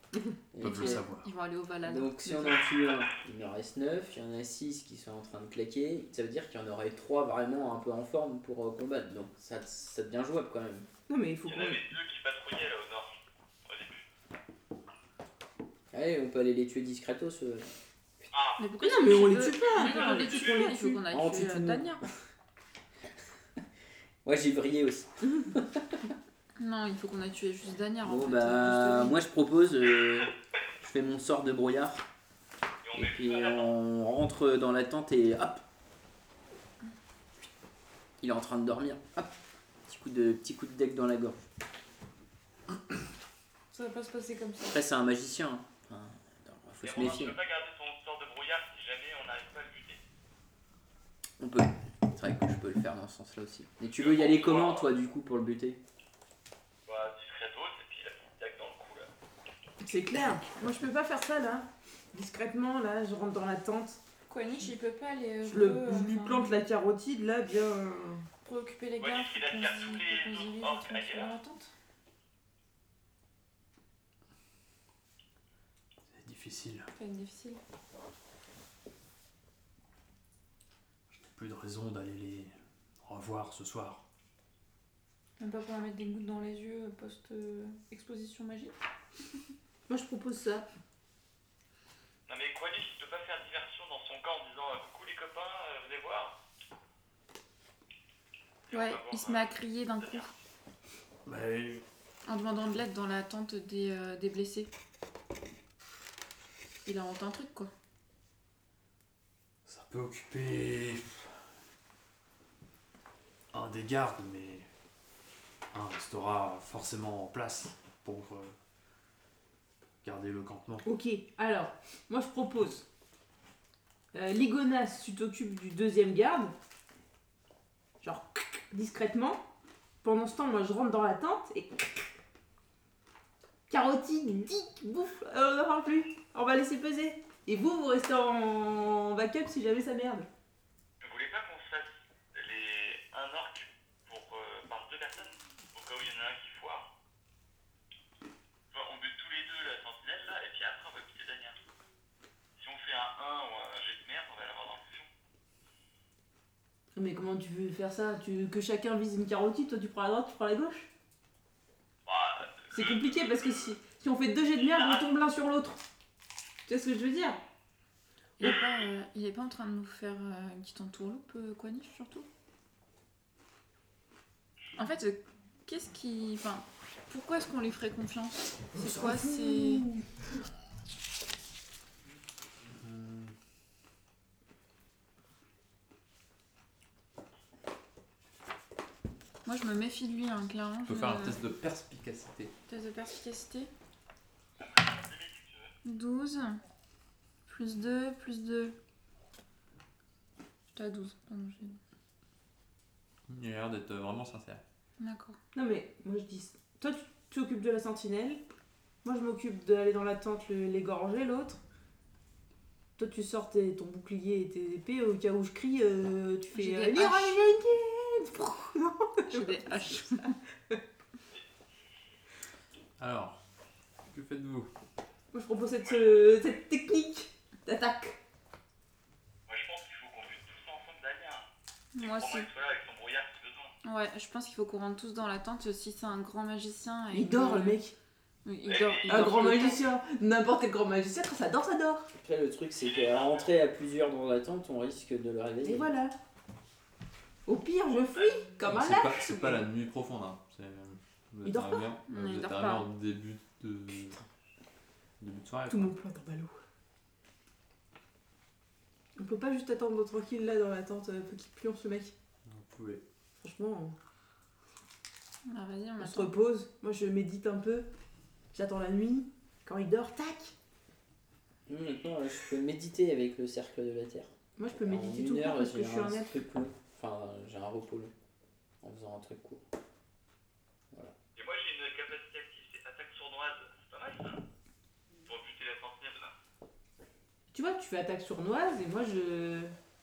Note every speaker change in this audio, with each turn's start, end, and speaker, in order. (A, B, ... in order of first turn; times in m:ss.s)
0:00.5-0:01.1 A
0:00.6-0:01.3 B
0:00.6-0:02.6 C
0:01.8-0:10.9 A
0:11.1-0:11.8 D
0:11.5-0:14.0 E
0:15.9-0:17.7 A
0:18.3-0:18.6 E
0:18.6-0:22.0 C
0:18.8-0:21.0 D
0:19.9-0:20.6 E
0:21.1-0:22.0 A
0:24.2-0:26.1 A
0:26.6-0:29.2 C
0:28.0-0:32.1 A
0:32.8-0:33.7 E
0:32.9-0:35.6 A
0:38.2-0:39.3 A
0:39.9-0:41.4 A
0:43.7-0:44.8 C
0:44.7-0:47.4 A
0:46.8-0:50.0 E
0:51.4-0:55.8 A
0:54.0-0:54.9 E
0:56.9-0:59.1 E
0:59.8-1:04.0 D
1:04.3-1:06.6 C
1:05.5-1:08.3 D
1:08.4-1:11.7 C
1:09.0-1:11.3 E
1:16.1-1:16.9 B
1:16.9-1:17.6 C
1:21.1-1:22.5 B
1:23.0-1:24.0 B
1:25.4-1:28.8 C
1:29.9-1:30.7 D
1:32.3-1:36.4 E
1:38.7-1:40.2 E
1:38.7-1:40.3 C
1:41.3-1:41.8 B
1:42.3-1:44.7 C
1:46.8-1:47.7 C
1:49.6-1:51.4 B
1:53.5-1:54.7 B
1:55.7-1:58.6 B
2:00.0-2:00.9 B
2:00.8-2:02.9 D
2:04.1-2:06.5 D
2:08.0-2:09.4 D
2:10.0-2:11.8 D
2:13.7-2:20.3 D
2:21.0-2:26.9 E
2:28.7-2:31.6 E
2:32.6-2:35.1 E
2:36.9-2:40.9 D
2:42.1-2:43.7 E
2:42.7-2:45.8 D
2:44.6-2:45.1 E
2:46.7-2:47.4 D
2:48.4-2:52.3 C
2:54.8-2:59.9 C
2:58.7-3:00.1 D
3:02.7-3:03.3 F
3:09.4-3:11.4 C
3:10.9-3:12.5 F
3:12.7-3:13.7 C
3:14.6-3:15.7 E
3:15.8-3:16.6 C
3:17.5-3:18.8 C
3:20.7-3:21.8 C
3:23.3-3:24.6 F
3:25.0-3:25.4 C
3:25.5-3:28.4 D
3:29.0-3:31.6 D
3:33.0-3:40.1 D
3:36.5-3:37.5 C
3:39.3-3:40.4 C
3:43.0-3:43.4 F
3:44.1-3:44.7 F
3:45.3-3:48.2 D
3:45.8-3:46.6 E
3:49.5-3:53.8 E
3:51.9-3:52.5 C
3:53.8-3:57.8 C
3:57.1-3:57.9 D
3:58.4-3:59.9 C
3:58.6-3:59.6 E
3:59.1-4:02.1 D
4:02.1-4:05.9 A
4:02.8-4:03.5 E
4:05.6-4:06.1 D
4:07.5-4:09.7 D
4:08.1-4:08.4 E
4:08.6-4:14.2 F
4:11.4-4:11.9 D
4:12.1-4:12.9 C
4:15.2-4:15.9 F
4:15.7-4:16.6 D
4:19.2-4:22.1 D
4:22.5-4:23.0 F
4:23.4-4:24.0 D
4:25.5-4:26.3 C
4:26.0-4:27.9 D
4:28.5-4:30.5 D
4:31.7-4:38.1 A
4:34.6-4:36.4 D
4:38.8-4:39.6 A
4:41.4-4:44.4 E
4:45.3-4:46.3 E
4:47.5-4:49.7 D